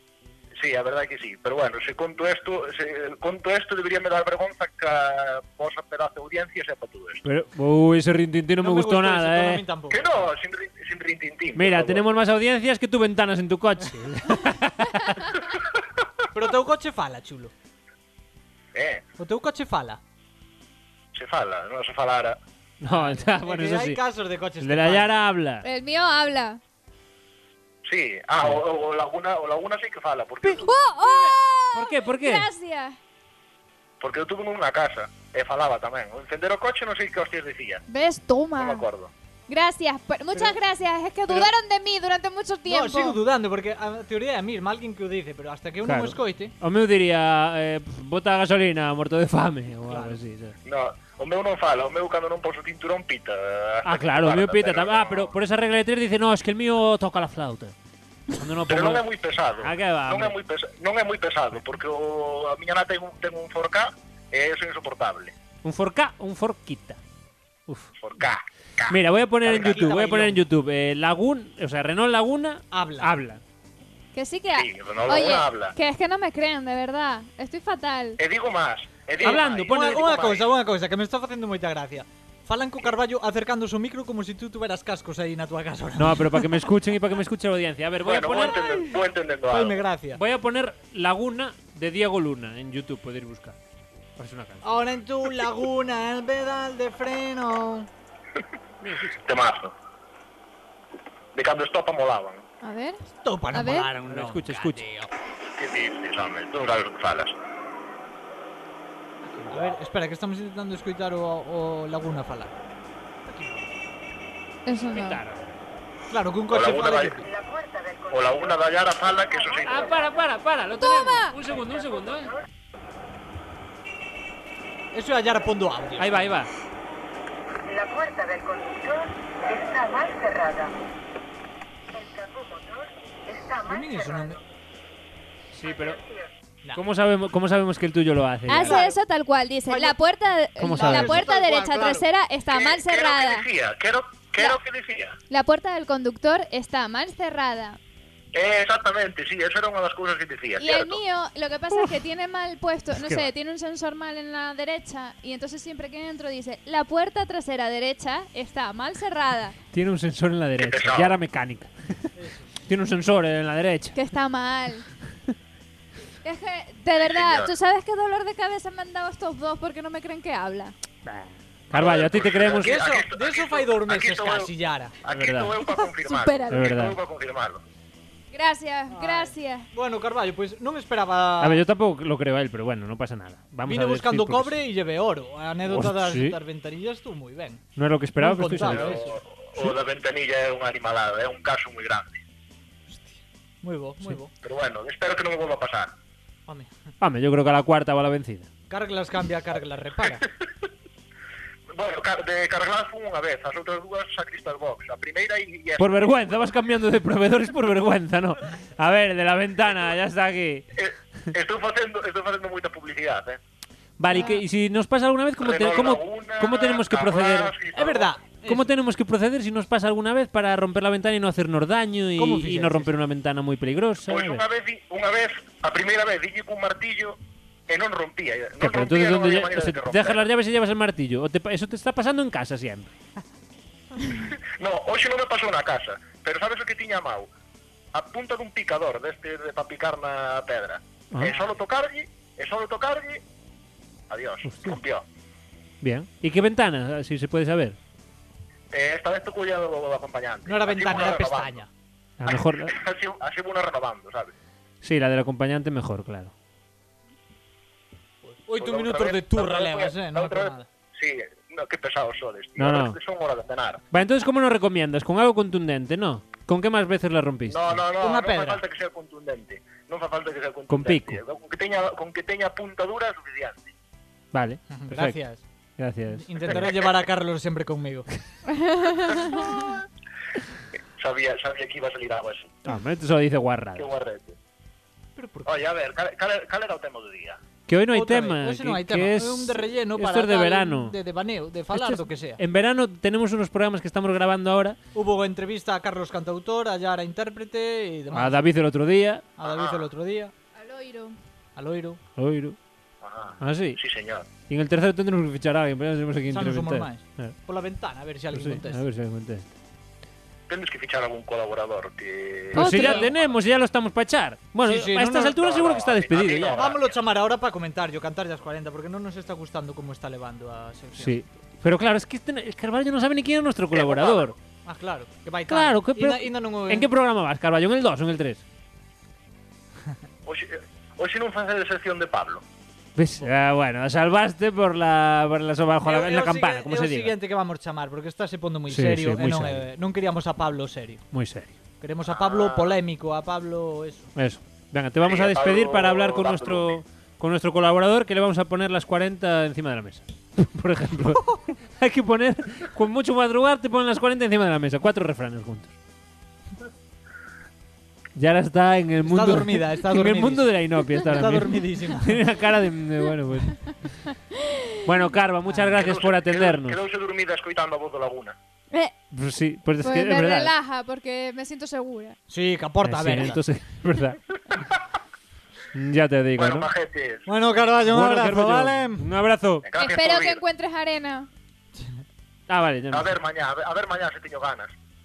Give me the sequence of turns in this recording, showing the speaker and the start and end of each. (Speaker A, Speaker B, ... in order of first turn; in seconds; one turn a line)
Speaker A: 0.6-7.2
Speaker B: 7.2-9.6
Speaker C: 8.6-10.2
Speaker A: 9.9-12.0
Speaker B: 11.6-15.3
Speaker C: 16.3-17.5
Speaker A: 18.7-19.1
Speaker C: 19.2-20.0
Speaker A: 21.1-22.4
Speaker B: 22.8-24.0
Speaker C: 22.9-25.1
Speaker B: 24.6-25.6
Speaker D: 25.6-26.6
Speaker A: 27.9-30.8
Speaker D: 30.6-33.0
Speaker B: 31.7-32.5
Speaker A: 34.0-37.8
Speaker D: 37.9-38.9
Speaker A: 38.6-39.1
Speaker D: 39.5-43.2
Speaker C: 42.7-46.5
Speaker B: 45.8-50.6
Speaker C: 49.9-50.2
Speaker A: 50.6-55.3
Speaker B: 53.8-57.8
Speaker B: 58.3-60.4
Speaker A: 58.7-65.3
Speaker B: 65.6-67.0
Speaker B: 67.7-67.9
Speaker A: 68.0-69.8
Speaker B: 68.9-73.4
Speaker C: 69.5-70.4
Speaker C: 72.7-73.1
Speaker D: 74.1-78.2
Speaker A: 74.6-75.8
Speaker A: 78.2-80.5
Speaker B: 79.2-80.3
Speaker C: 79.3-86.6
Speaker B: 86.0-88.8
Speaker A: 88.0-89.8
Speaker C: 88.3-90.2
Speaker B: 90.1-93.6
Speaker B: 94.2-94.7
Speaker C: 94.6-97.9
Speaker B: 98.8-99.3
Speaker A: 99.2-99.7
Speaker A: 101.3-102.4
Speaker D: 102.6-103.9
Speaker C: 103.2-105.1
Speaker B: 104.0-104.9
Speaker A: 105.5-107.4
Speaker B: 109.2-109.8
Speaker C: 109.5-112.6
Speaker B: 113.3-113.7
Speaker D: 114.7-115.2
Speaker B: 114.9-115.5
Speaker C: 116.1-117.3
Speaker A: 116.5-117.2
Speaker E: 117.5-118.2
Speaker A: 118.1-120.0
Speaker B: 119.6-122.3
Speaker D: 120.8-121.4
Speaker C: 124.9-126.3
Speaker B: 126.0-126.5
Speaker E: 127.7-130.7
Speaker E: 132.0-132.6
Speaker E: 133.3-133.8
Speaker C: 133.6-134.4
Speaker B: 135.5-136.0
Speaker B: 136.7-138.8
Speaker D: 138.5-143.5
Speaker C: 138.5-138.9
Speaker C: 139.7-139.9
Speaker B: 140.6-141.3
Speaker C: 140.7-142.1
Speaker A: 142.5-145.2
Speaker D: 145.3-147.8
Speaker A: 148.3-151.0
Speaker D: 150.6-159.6
Speaker B: 152.9-153.3
Speaker B: 159.7-162.1
Speaker A: 160.6-161.1
Speaker C: 162.2-162.5
Speaker B: 162.7-164.0
Speaker D: 163.9-164.9
Speaker D: 166.2-170.8
Speaker A: 167.0-167.5
Speaker B: 171.1-172.8
Speaker A: 171.7-177.6
Speaker C: 172.6-175.0
Speaker B: 175.1-175.6
Speaker D: 175.6-176.8
Speaker B: 176.5-177.0
Speaker D: 178.3-179.7
Speaker C: 178.9-181.6
Speaker B: 181.4-184.6
Speaker C: 183.7-187.6
Speaker B: 185.7-186.4
Speaker B: 187.8-189.8
Speaker C: 188.2-189.1
Speaker A: 188.6-192.2
Speaker C: 192.9-194.3
Speaker A: 194.4-195.9
Speaker C: 196.5-196.7
Speaker B: 197.0-198.5
Speaker C: 198.7-200.2
Speaker A: 201.7-206.4
Speaker B: 205.8-210.7
Speaker A: 210.7-213.4
Speaker B: 214.0-217.5
Speaker D: 214.1-214.4
Speaker A: 215.4-218.2
Speaker C: 217.7-218.7
Speaker B: 218.4-224.4
Speaker C: 222.2-222.9
Speaker A: 224.1-230.2
Speaker B: 228.6-233.0
Speaker A: 234.1-237.3
Speaker A: 237.9-243.2
Speaker B: 241.1-241.4
Speaker A: 244.1-245.1
Speaker B: 244.5-244.8
Speaker B: 245.8-247.8
Speaker A: 248.7-251.6
Speaker C: 250.5-251.7
Speaker B: 252.2-252.8
Speaker A: 252.3-254.3
Speaker B: 254.8-256.3
Speaker C: 258.2-260.7
Speaker A: 258.5-263.8
Speaker B: 262.6-263.0
Speaker B: 263.9-267.8
Speaker A: 267.5-273.7
Speaker C: 268.0-268.6
Speaker B: 270.7-271.2
Speaker B: 274.3-275.2
Speaker C: 274.7-275.4
Speaker B: 275.8-276.7
Speaker C: 276.1-278.1
Speaker D: 278.5-279.6
Speaker A: 281.0-282.6
Speaker B: 282.6-283.9
Speaker A: 283.8-284.4
Speaker C: 285.2-285.7
Speaker A: 285.5-287.4
Speaker B: 287.7-291.0
Speaker C: 287.9-292.4
Speaker B: 291.7-294.8
Speaker C: 294.9-298.4
Speaker B: 298.1-299.3
Speaker C: 299.4-300.3
Speaker A: 299.4-299.9
Speaker D: 300.6-301.2
Speaker C: 301.6-302.0
Speaker B: 302.2-302.6
Speaker A: 303.0-304.3
Speaker B: 303.4-303.8
Speaker B: 304.5-307.4
Speaker C: 306.3-308.8
Speaker B: 308.3-309.5
Speaker A: 310.5-313.2
Speaker B: 312.5-316.6
Speaker D: 312.6-313.1
Speaker C: 314.6-315.4
Speaker A: 315.3-317.0
Speaker C: 316.6-321.2
Speaker B: 321.0-324.4
Speaker A: 323.7-324.4
Speaker C: 324.6-326.9
Speaker B: 325.5-328.4
Speaker A: 330.3-332.4
Speaker B: 333.0-337.1
Speaker C: 335.9-341.1
Speaker B: 338.7-339.7
Speaker B: 341.1-341.6
Speaker C: 341.8-344.1
Speaker A: 342.1-342.8
Speaker B: 344.2-355.8
Speaker A: 345.0-346.7
Speaker B: 358.1-364.0
Speaker C: 359.0-362.2
Speaker D: 364.3-364.9
Speaker B: 364.9-366.8
Speaker C: 365.5-365.8
Speaker A: 365.8-368.4
Speaker B: 369.1-370.5
Speaker D: 369.8-372.2
Speaker C: 372.3-373.4
Speaker B: 372.8-374.2
Speaker B: 375.7-376.7
Speaker A: 376.4-377.3
Speaker C: 377.3-379.1
Speaker B: 377.9-379.7
Speaker A: 379.6-380.4
Speaker D: 379.8-381.3
Speaker B: 382.5-383.1
Speaker A: 382.9-384.8